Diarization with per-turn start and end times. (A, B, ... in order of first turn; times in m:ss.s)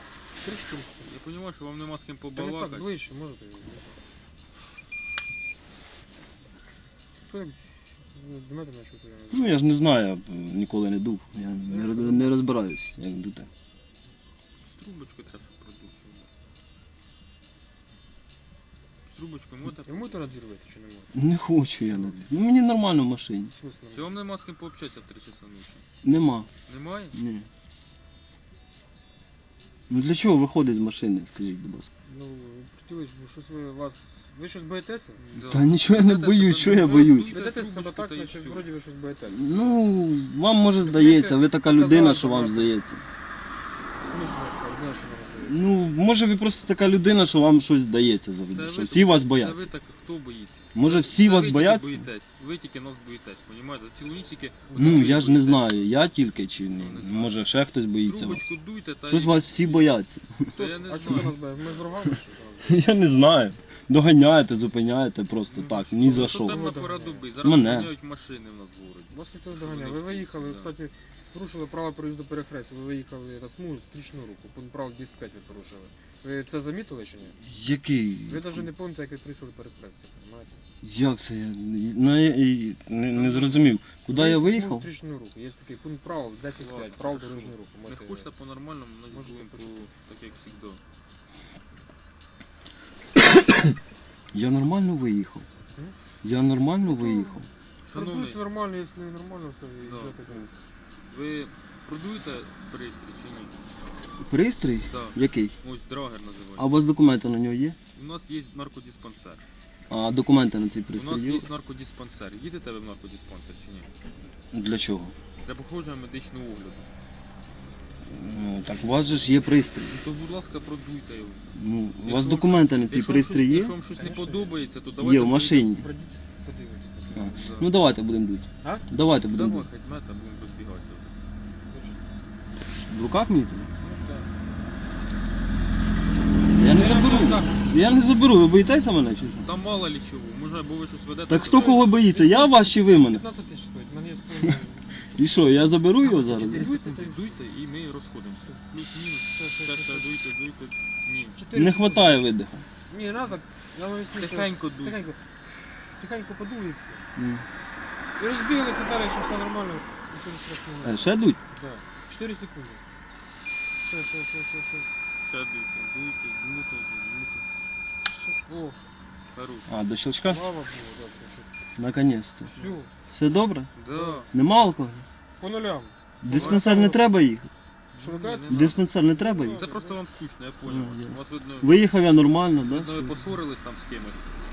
0:00.4-0:01.1 A
0:01.0-0:02.9 B
0:02.3-0:04.0 A
0:07.2-0:07.6 A
0:08.1-0:09.6 A
0:09.3-0:13.5 C
0:11.7-0:12.3 A
0:14.6-0:16.3 B
0:19.0-0:20.3 B
0:19.8-0:21.2 A
0:21.1-0:23.5 C
0:21.8-0:22.2 A
0:23.5-0:24.2 A
0:23.9-0:25.8 B
0:26.0-0:26.5 C
0:26.7-0:27.2 B
0:27.1-0:27.5 C
0:29.9-0:31.9 C
0:32.0-0:35.2 A
0:35.2-0:38.7 B
0:35.3-0:37.4 C
0:37.1-0:39.8 A
0:39.3-0:43.0 C
0:40.6-0:42.7 A
0:44.0-0:45.7 A
0:45.4-0:49.7 C
0:48.5-0:55.9 B
0:50.7-0:52.1 C
0:54.7-0:58.5 C
0:56.7-0:57.4 B
0:58.0-1:00.0 B
0:59.1-1:01.3 C
1:00.5-1:01.4 B
1:00.7-1:02.9 A
1:02.6-1:06.6 C
1:05.5-1:10.8 B
1:06.2-1:07.3 A
1:07.4-1:07.9 C
1:09.1-1:17.4 A
1:17.4-1:18.7 C
1:18.2-1:20.6 A
1:20.8-1:24.9 C
1:23.1-1:23.8 B
1:24.0-1:28.3 A
1:26.6-1:30.8 B
1:29.1-1:29.9 A
1:33.4-1:33.6 C
1:34.3-1:35.4 C
1:36.2-1:37.5 C
1:36.8-1:37.4 A
1:37.8-1:38.4 B
1:37.9-1:40.5 A
1:39.8-1:40.5 B
1:41.1-1:43.5 B
1:44.2-1:45.6 C
1:44.8-1:46.8 B
1:46.6-1:47.8 C
1:47.9-1:49.4 B
1:49.9-1:51.6 C
1:50.9-1:53.9 B
1:54.5-1:55.1 C
1:55.4-1:56.9 B
1:58.1-2:00.0 C
1:59.9-2:01.4 B
2:01.5-2:03.8 C
2:02.0-2:05.7 B
2:03.9-2:04.6 A
2:05.0-2:05.9 C
2:05.7-2:07.6 A
2:07.1-2:09.7 C
2:07.3-2:07.7 B
2:09.2-2:11.1 B
2:11.7-2:12.0 A
2:12.7-2:13.7 C
2:13.8-2:14.3 A
2:16.5-2:19.5 C
2:16.6-2:17.6 A
2:19.4-2:21.9 B
2:21.3-2:23.2 C
2:21.5-2:25.2 A
2:25.1-2:26.7 C
2:26.0-2:27.4 A
2:26.3-2:31.4 B
2:29.2-2:30.1 A
2:31.3-2:32.1 A
2:31.5-2:32.6 C
2:32.9-2:37.0 A
2:34.1-2:35.0 B
2:37.2-2:37.4 C
2:38.2-2:42.8 A
2:40.8-2:41.4 C
2:43.8-2:44.9 A
2:45.2-2:47.4 B
2:48.0-2:48.8 A
2:49.3-2:49.7 B
2:49.7-2:50.4 C
2:50.3-2:51.5 A
2:51.8-2:52.5 C
2:52.5-2:52.9 A
2:53.1-2:53.7 C
2:53.8-2:54.3 B
2:53.9-2:54.2 A
2:54.3-2:55.0 C
2:55.4-2:57.0 A
2:56.2-2:57.5 C
2:56.2-2:56.7 B
2:57.9-2:58.8 B
2:57.9-3:00.0 A
2:58.5-2:59.6 C
2:59.5-3:01.8 B
3:00.6-3:03.3 C
3:02.7-3:04.3 B